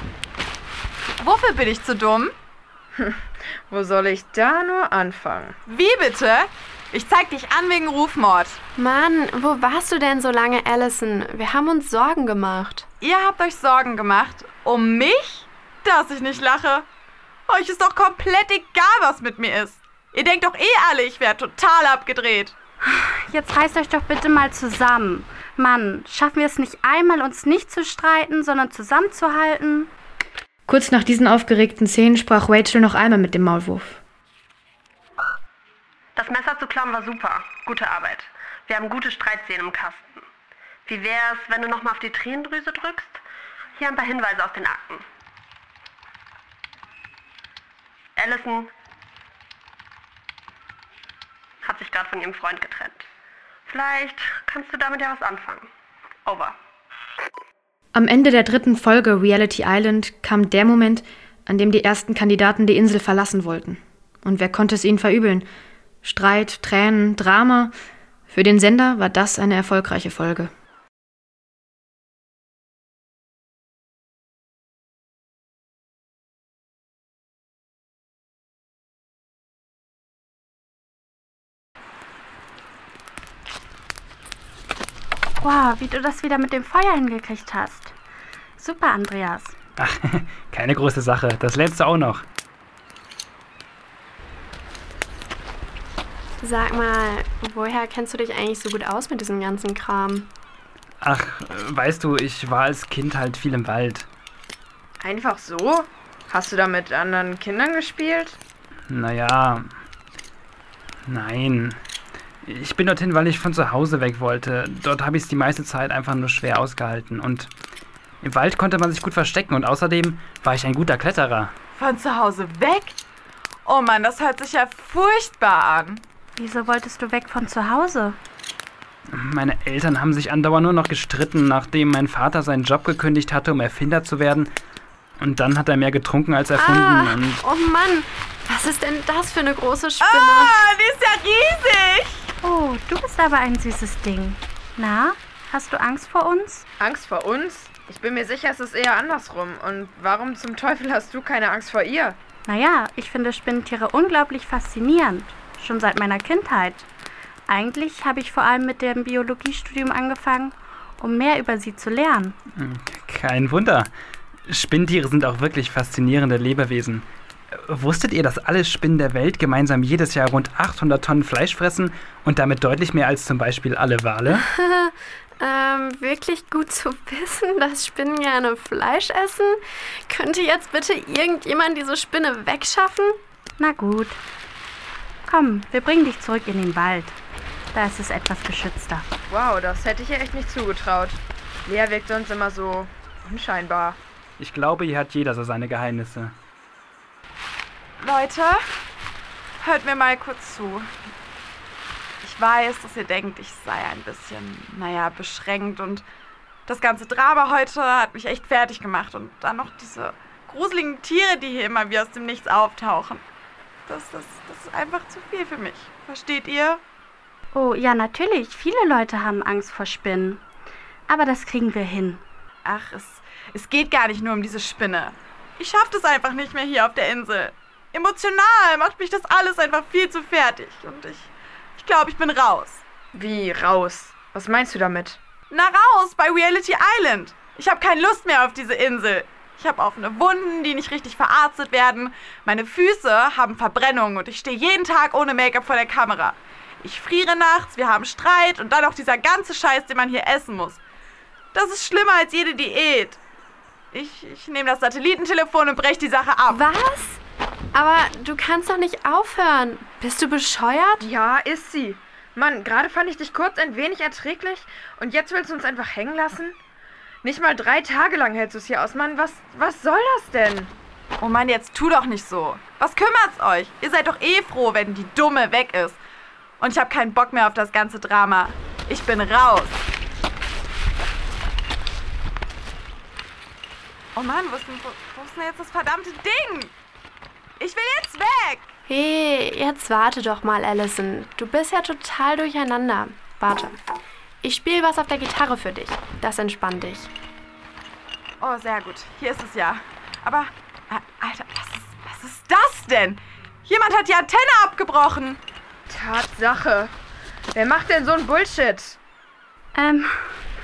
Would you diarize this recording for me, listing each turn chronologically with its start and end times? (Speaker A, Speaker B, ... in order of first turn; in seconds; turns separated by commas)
Speaker A: 1.2-2.3, Speaker B: 3.7-5.5, Speaker A: 5.7-8.6, Speaker C: 8.8-12.9, Speaker A: 13.0-16.9, Speaker A: 17.5-22.6, Speaker D: 22.9-29.9, Speaker E: 30.7-34.0, Speaker F: 36.2-40.2, Speaker F: 40.9-43.2, Speaker F: 43.8-45.0, Speaker F: 48.2-48.7, Speaker F: 51.6-53.0, Speaker F: 53.7-55.7, Speaker F: 56.3-56.6, Speaker E: 57.9-65.5, Speaker E: 66.0-67.7, Speaker E: 68.3-70.5, Speaker D: 85.4-87.9, Speaker D: 88.6-89.6, Speaker G: 89.8-92.2, Speaker C: 96.4-100.3, Speaker G: 101.0-104.1, Speaker B: 105.0-108.4, Speaker G: 108.9-109.7, Speaker G: 111.1-111.8, Speaker G: 112.4-117.5, Speaker G: 118.2-121.5, Speaker A: 121.8-123.0, Speaker A: 123.7-126.0, Speaker D: 126.4-128.2, Speaker G: 129.1-134.5, Speaker G: 135.2-137.4, Speaker C: 136.6-140.5, Speaker A: 140.0-142.3, Speaker D: 142.4-146.7, Speaker B: 146.8-152.2, Speaker D: 152.5-156.9, Speaker D: 157.5-162.3, Speaker G: 162.6-163.9, Speaker G: 164.5-174.4, Speaker C: 174.3-183.2, Speaker D: 183.6-184.2, Speaker D: 185.3-187.2, Speaker D: 187.7-189.1, Speaker B: 189.3-194.0, Speaker G: 194.4-196.3, Speaker A: 198.0-198.6, Speaker A: 199.6-200.9, Speaker A: 202.2-206.1, Speaker A: 206.7-213.2, Speaker A: 213.9-216.8, Speaker D: 217.5-220.4, Speaker D: 221.1-222.2, Speaker A: 222.6-232.8, Speaker B: 233.1-235.2, Speaker A: 235.5-250.8, Speaker A: 251.5-253.2, Speaker A: 253.9-256.6, Speaker C: 256.5-257.2, Speaker C: 257.7-261.1, Speaker B: 261.0-266.6, Speaker B: 267.2-270.7, Speaker A: 271.2-276.0, Speaker A: 276.6-279.9, Speaker A: 284.2-286.7, Speaker A: 287.6-288.7, Speaker C: 288.9-293.8, Speaker C: 294.4-297.1, Speaker A: 298.4-305.4, Speaker B: 305.9-306.9, Speaker B: 307.5-309.0, Speaker D: 309.8-310.4